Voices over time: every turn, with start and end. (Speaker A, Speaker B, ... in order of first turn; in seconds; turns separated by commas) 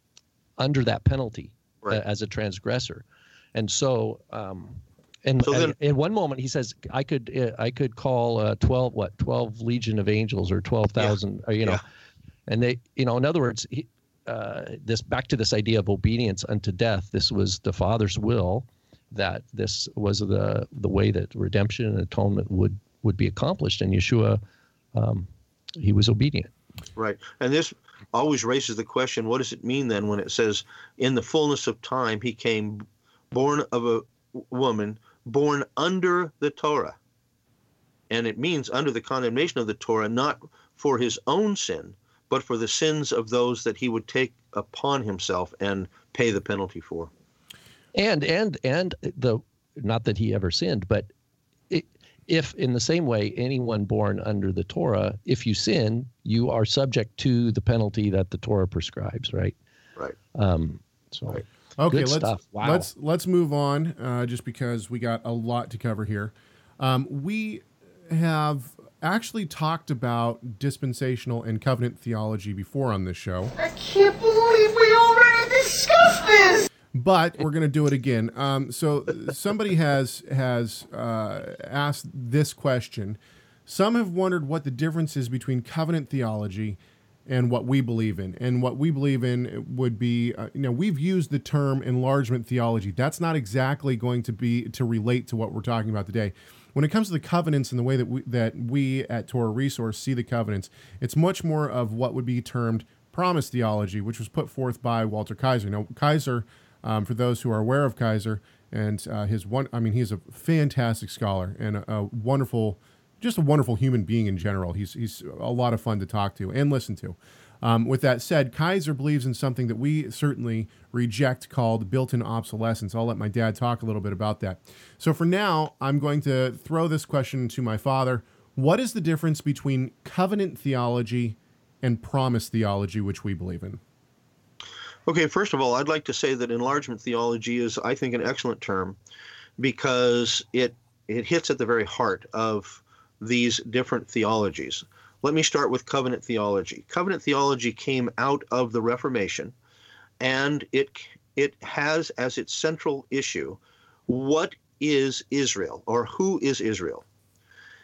Speaker A: 0.6-11.8, Speaker B: 5.4-5.8, Speaker B: 11.0-11.8, Speaker A: 12.5-24.4, Speaker A: 24.9-26.5, Speaker B: 27.0-37.0, Speaker B: 38.1-47.1, Speaker A: 48.0-51.1, Speaker A: 51.7-59.5, Speaker A: 60.4-62.9, Speaker C: 61.8-73.5, Speaker D: 73.6-76.7, Speaker C: 76.9-133.8, Speaker B: 135.1-139.0, Speaker B: 139.6-149.5, Speaker B: 150.2-157.0